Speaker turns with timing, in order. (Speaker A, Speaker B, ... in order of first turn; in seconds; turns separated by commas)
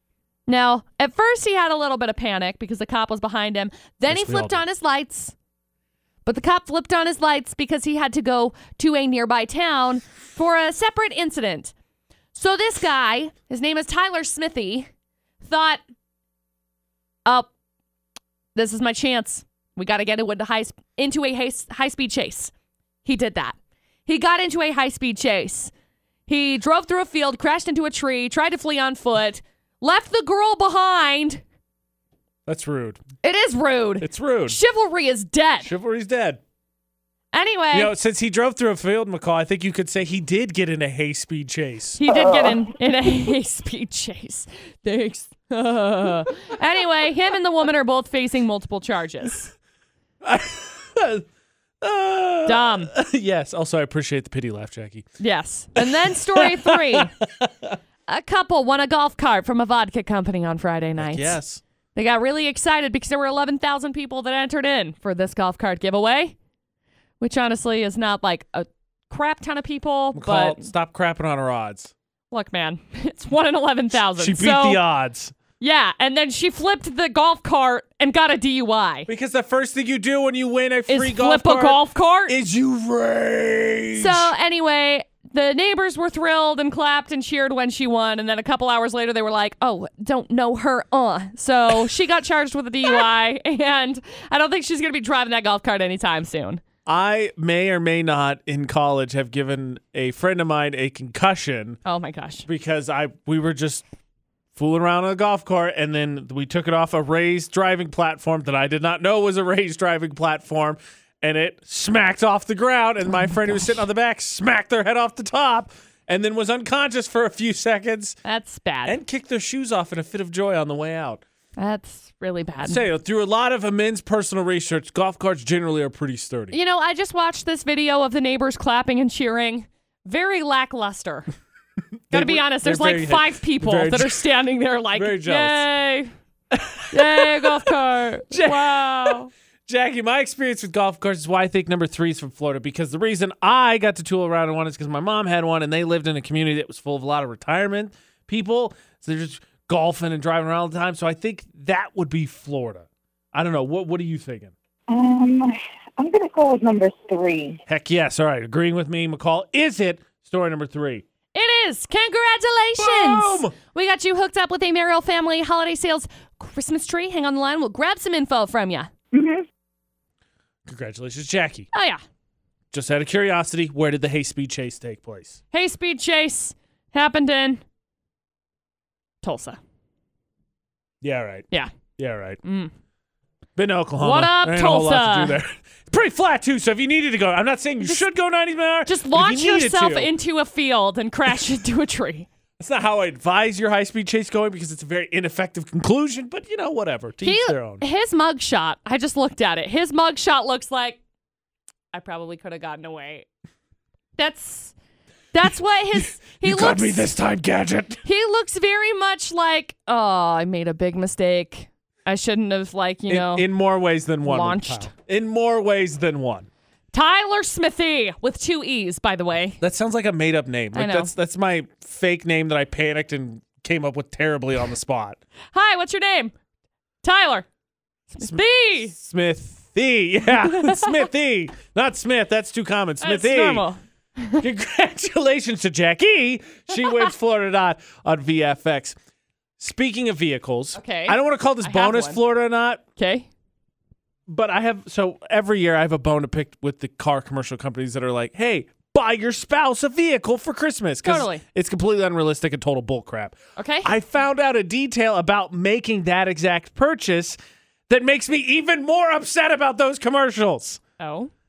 Speaker A: 0.5-5.3, Speaker B: 4.1-4.6, Speaker A: 6.2-11.7, Speaker A: 12.3-14.9, Speaker A: 15.4-15.8, Speaker A: 18.6-22.5, Speaker A: 23.1-23.6, Speaker A: 24.1-25.7, Speaker A: 26.3-31.4, Speaker B: 32.5-33.0, Speaker A: 33.2-35.7, Speaker B: 34.0-34.6, Speaker B: 35.6-36.4, Speaker A: 37.3-37.9, Speaker B: 37.7-42.0, Speaker A: 42.0-49.5, Speaker C: 42.1-42.6, Speaker B: 50.2-51.2, Speaker B: 51.8-55.1, Speaker A: 52.5-52.9, Speaker A: 55.2-57.1, Speaker B: 55.8-57.8, Speaker A: 58.1-61.4, Speaker B: 61.0-61.6, Speaker A: 62.0-66.3, Speaker A: 67.2-70.7, Speaker B: 70.1-71.9, Speaker A: 72.3-74.8, Speaker B: 74.2-75.3, Speaker A: 75.6-79.1, Speaker B: 79.1-84.3, Speaker A: 80.9-82.3, Speaker A: 84.0-96.6, Speaker B: 96.9-101.8, Speaker A: 101.8-102.5, Speaker B: 102.5-103.8, Speaker B: 104.5-118.2, Speaker A: 118.2-119.0, Speaker B: 118.9-121.2, Speaker A: 121.6-122.8, Speaker B: 122.7-126.6, Speaker A: 126.5-131.3, Speaker B: 132.1-134.2, Speaker A: 132.1-136.1, Speaker B: 134.9-135.7, Speaker B: 136.5-137.7, Speaker A: 136.9-139.3, Speaker B: 138.3-154.5, Speaker C: 154.9-157.6, Speaker B: 157.7-161.1, Speaker A: 161.3-168.9, Speaker B: 162.8-163.5, Speaker C: 169.1-169.4, Speaker B: 170.7-171.7, Speaker A: 171.7-172.0, Speaker B: 172.7-175.4, Speaker A: 175.5-177.6, Speaker A: 179.2-179.6, Speaker B: 181.0-181.5, Speaker B: 182.0-182.4, Speaker A: 182.4-182.7, Speaker B: 183.6-190.1, Speaker A: 184.0-185.4, Speaker A: 188.9-192.3, Speaker B: 192.6-197.8, Speaker A: 197.2-201.0, Speaker A: 201.9-203.3, Speaker A: 204.2-204.7, Speaker A: 205.3-207.1, Speaker B: 205.9-208.0, Speaker A: 208.1-213.5, Speaker B: 213.1-216.5, Speaker A: 214.2-214.9, Speaker A: 216.9-219.6, Speaker B: 219.6-225.2, Speaker A: 220.7-221.1, Speaker A: 225.5-226.3, Speaker A: 227.0-227.5, Speaker A: 228.1-228.9, Speaker B: 228.2-233.7, Speaker A: 230.4-231.0, Speaker A: 233.0-234.4, Speaker B: 234.4-239.0, Speaker B: 239.6-242.8, Speaker A: 240.8-242.2, Speaker A: 243.0-243.3, Speaker B: 244.3-257.4, Speaker A: 251.0-251.4, Speaker A: 253.6-253.9, Speaker B: 257.9-260.8, Speaker A: 261.0-261.3